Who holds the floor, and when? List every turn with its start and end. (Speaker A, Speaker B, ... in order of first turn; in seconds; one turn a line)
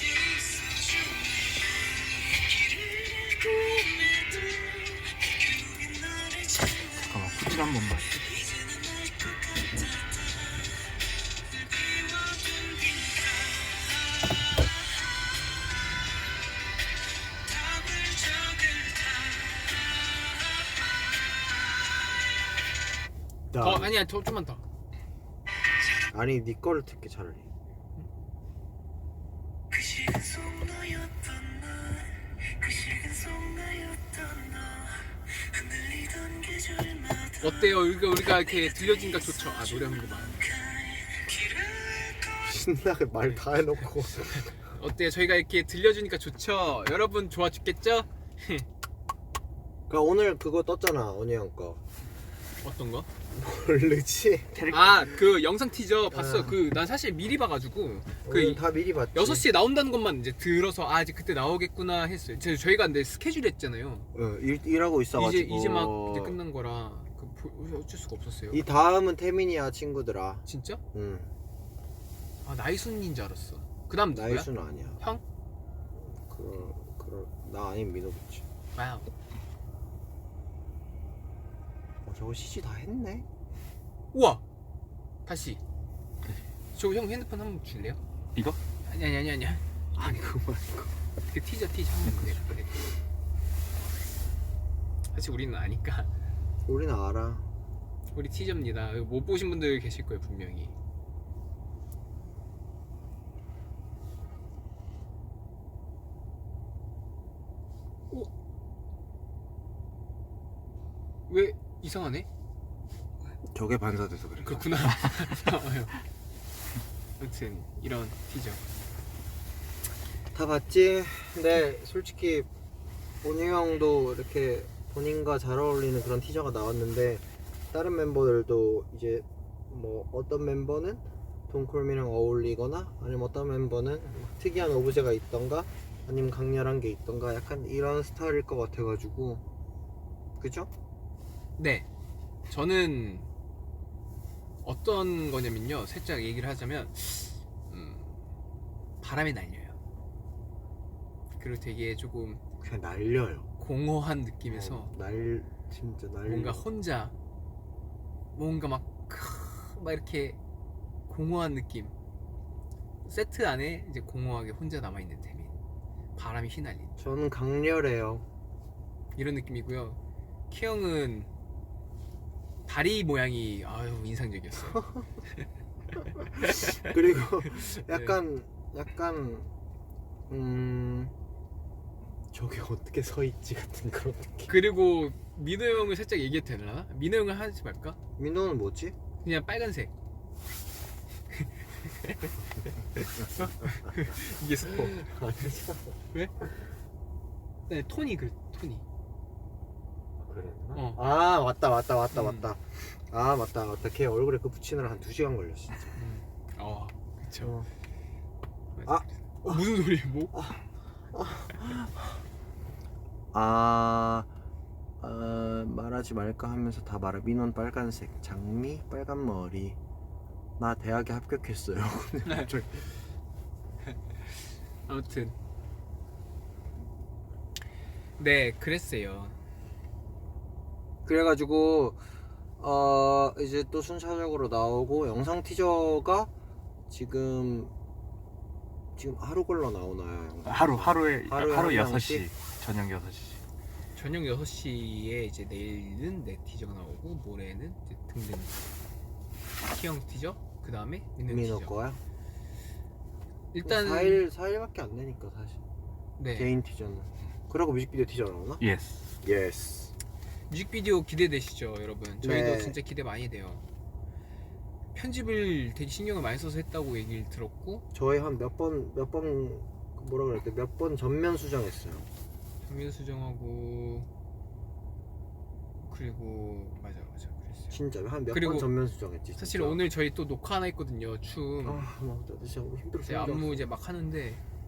Speaker A: 7.0-8.4
Speaker B: 23.5-23.9
Speaker C: 23.6-24.6
Speaker B: 26.1-27.5
Speaker C: 37.4-40.5
Speaker B: 41.2-44.5
Speaker C: 44.6-48.7
Speaker B: 49.9-51.8
Speaker C: 52.6-53.1
Speaker B: 53.3-54.6
Speaker A: 54.5-55.1
Speaker C: 54.7-58.6
Speaker B: 56.1-56.6
Speaker B: 58.2-59.5
Speaker C: 59.1-64.1
Speaker B: 64.1-66.4
Speaker C: 65.2-68.7
Speaker B: 68.5-71.3
Speaker C: 70.5-70.8
Speaker C: 72.5-75.2
Speaker B: 74.1-75.0
Speaker B: 76.0-78.5
Speaker C: 78.8-79.1
Speaker B: 82.0-83.3
Speaker C: 84.1-84.4
Speaker C: 85.3-85.6
Speaker C: 86.7-88.0
Speaker C: 88.9-89.6
Speaker B: 90.0-91.0
Speaker C: 91.3-92.8
Speaker C: 95.1-96.1
Speaker B: 96.7-97.5
Speaker C: 98.1-100.7
Speaker C: 111.3-112.3
Speaker B: 113.5-115.1
Speaker C: 114.4-115.9
Speaker C: 117.2-118.6
Speaker B: 120.3-122.5
Speaker B: 123.2-139.4
Speaker B: 140.4-140.7
Speaker C: 141.6-141.9
Speaker C: 142.5-143.3
Speaker C: 144.6-148.2
Speaker C: 149.0-149.8
Speaker C: 151.4-152.4
Speaker B: 152.6-153.5
Speaker C: 153.6-154.9
Speaker B: 154.5-156.6
Speaker C: 156.3-157.1
Speaker C: 158.3-160.4
Speaker C: 161.1-161.9
Speaker C: 163.1-165.6
Speaker C: 166.2-167.0
Speaker B: 167.0-168.2
Speaker C: 169.2-170.0
Speaker C: 170.5-171.3
Speaker C: 172.7-174.9
Speaker C: 176.4-176.8
Speaker B: 176.5-179.5
Speaker C: 177.7-178.2
Speaker B: 180.3-181.1
Speaker B: 182.3-184.5
Speaker C: 184.5-188.0
Speaker B: 188.2-188.9
Speaker C: 189.2-189.9
Speaker C: 191.3-192.3
Speaker C: 192.9-195.0
Speaker B: 193.7-196.0
Speaker C: 197.7-198.8
Speaker B: 200.2-205.9
Speaker C: 200.8-201.0
Speaker C: 202.1-202.5
Speaker C: 206.0-207.5
Speaker B: 207.4-207.7
Speaker C: 208.8-210.3
Speaker B: 208.9-209.7
Speaker B: 210.3-210.6
Speaker B: 211.1-212.2
Speaker B: 213.3-214.3
Speaker B: 215.0-219.8
Speaker B: 220.6-222.9
Speaker C: 222.2-222.5
Speaker C: 224.9-225.3
Speaker C: 228.2-229.4
Speaker B: 231.1-232.0
Speaker B: 232.6-236.3
Speaker B: 236.9-237.7
Speaker B: 239.0-242.3
Speaker A: 240.4-243.4
Speaker C: 243.9-248.6
Speaker C: 249.6-251.7
Speaker B: 251.3-252.0
Speaker C: 253.5-254.2
Speaker B: 253.6-255.6
Speaker C: 256.2-256.5
Speaker B: 256.4-258.6
Speaker A: 258.6-259.1
Speaker B: 259.2-259.9
Speaker C: 260.5-263.6
Speaker B: 262.2-262.8
Speaker C: 264.9-267.9
Speaker B: 267.9-272.1
Speaker C: 272.7-274.1
Speaker C: 275.9-277.7
Speaker B: 277.7-279.8
Speaker C: 278.3-278.7
Speaker C: 279.4-281.9
Speaker B: 281.6-283.6
Speaker C: 283.0-284.4